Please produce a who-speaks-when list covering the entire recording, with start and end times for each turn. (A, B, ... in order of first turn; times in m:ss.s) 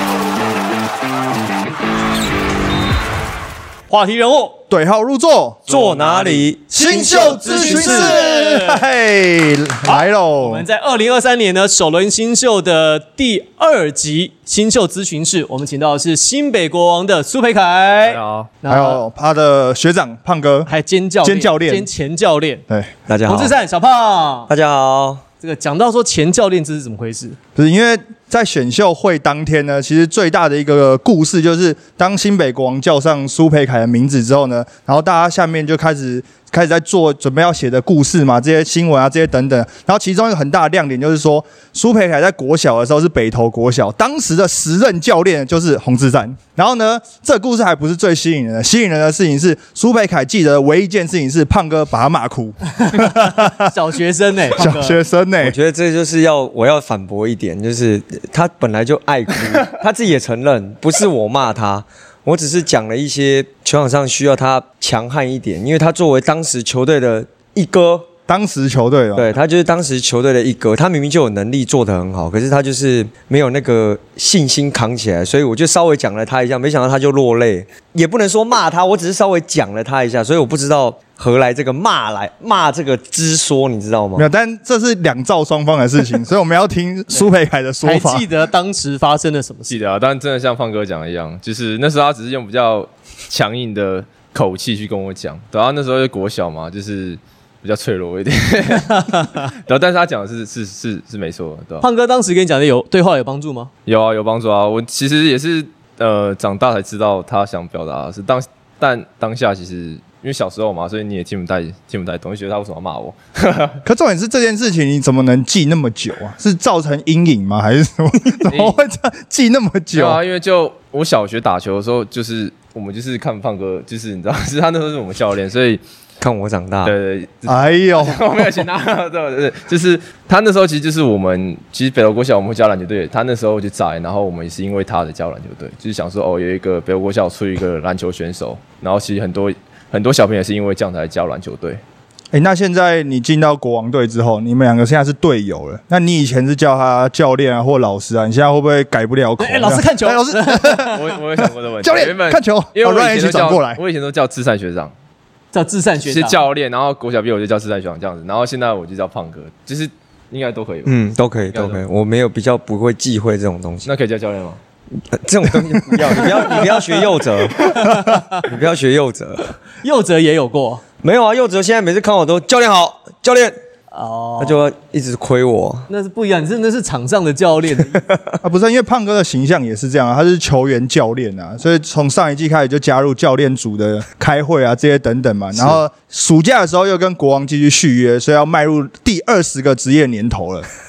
0:03.9-0:04.6 A
0:04.7-0:05.7 B
0:05.7-0:08.2 C
0:05.8-0:08.8 A
0:05.8-0:06.4 D
0:06.7-0:10.6 B
0:09.8-0:19.0 A
0:18.0-0:18.5 D
0:18.7-0:20.7 B
0:20.6-0:22.6 A
0:21.2-0:21.9 B
0:23.1-0:23.6 C
0:23.3-0:24.5 A
0:24.5-0:25.2 C
0:25.4-0:27.4 A
0:27.6-0:53.7 B
0:52.8-0:55.0 A
0:54.6-0:55.6 B
0:55.4-1:08.1 C
1:08.3-1:09.3 B
1:09.1-1:24.2 C
1:24.2-1:28.3 B
1:27.8-1:29.8 A
1:29.7-1:41.8 D
1:38.8-1:39.5 A
1:41.8-1:43.7 A
1:43.8-1:53.8 D
1:53.8-2:00.2 B
1:58.5-1:58.8 D
1:59.9-2:05.8 D
2:06.2-2:06.9 C
2:06.8-2:21.8 D
2:07.4-2:08.6 B
2:22.3-2:33.8 B
2:29.4-2:31.0 A
2:30.9-2:34.9 D
2:35.5-2:36.4 A
2:36.0-2:41.8 D
2:40.8-2:43.9 C
2:43.8-2:44.6 D
2:45.1-2:47.8 C
2:47.6-2:48.4 A
2:48.4-2:49.5 C
2:49.8-2:50.8 A
2:51.0-2:53.6 C
2:53.9-2:54.6 A
2:54.4-2:55.9 C
2:55.9-2:58.0 A
2:57.9-2:58.4 C
2:58.4-3:10.6 B